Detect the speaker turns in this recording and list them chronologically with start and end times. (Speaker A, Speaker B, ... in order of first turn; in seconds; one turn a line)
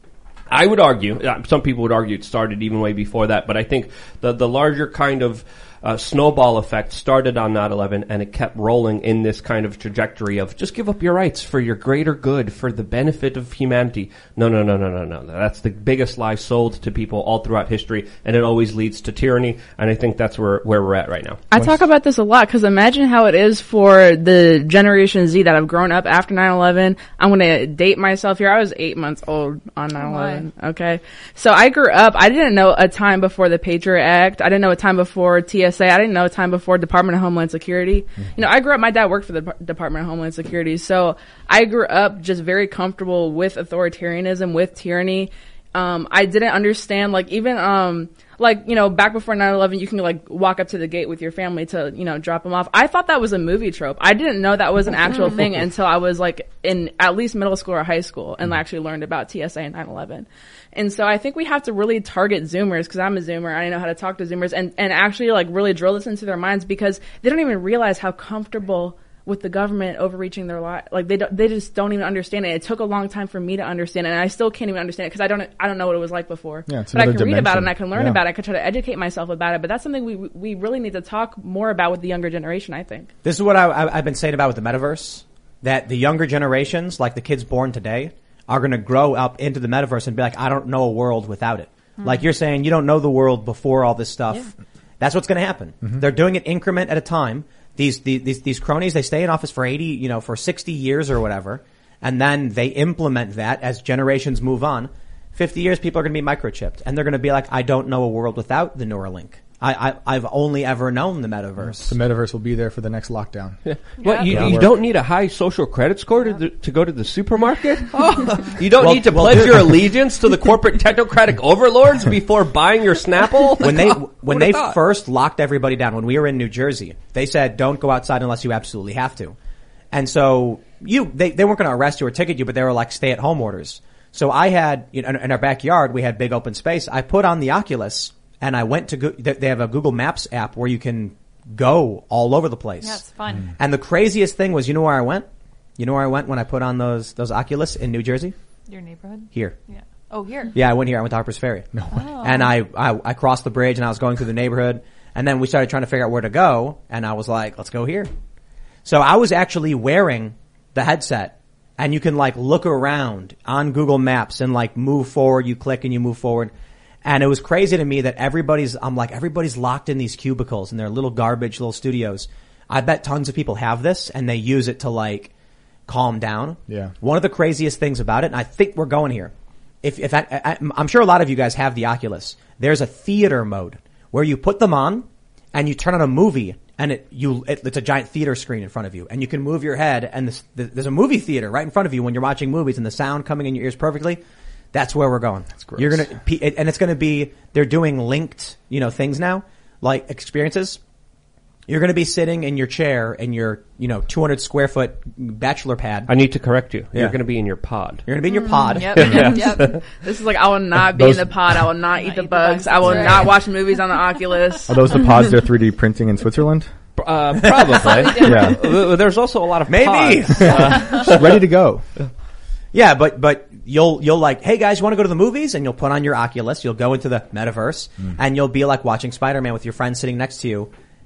Speaker A: 0.5-21.4
Speaker B: 21.5-83.1
Speaker C: 21.5-21.8
Speaker D: 30.0-30.5
Speaker C: 76.7-78.2
Speaker E: 83.2-112.0
Speaker D: 92.0-92.2
Speaker C: 111.6-113.6
Speaker A: 113.7-124.8
Speaker D: 114.0-114.3
Speaker E: 114.3-114.6
Speaker C: 114.3-114.7
Speaker D: 118.0-118.3
Speaker E: 118.8-119.8
Speaker E: 123.6-129.3
Speaker E: 129.9-143.0
Speaker D: 142.8-143.5
Speaker E: 143.6-145.3
Speaker E: 145.8-148.3
Speaker D: 148.7-150.6
Speaker E: 150.5-158.1
Speaker C: 151.7-152.1
Speaker D: 151.9-152.5
Speaker E: 158.8-166.5
Speaker E: 167.1-175.3
Speaker E: 175.9-179.3
Speaker C: 176.7-176.9
Speaker E: 179.8-194.2
Speaker E: 194.7-200.8
Speaker C: 195.6-196.1
Speaker E: 201.7-206.1
Speaker A: 206.1-208.1
Speaker E: 208.1-209.3
Speaker D: 208.3-209.8
Speaker A: 208.9-209.8
Speaker B: 208.9-215.1
Speaker C: 210.9-211.6
Speaker D: 211.9-214.2
Speaker C: 214.7-216.7
Speaker A: 217.0-221.5
Speaker D: 217.8-218.7
Speaker C: 218.2-218.6
Speaker E: 219.7-220.9
Speaker C: 220.5-221.8
Speaker D: 220.6-221.1
Speaker E: 222.7-230.7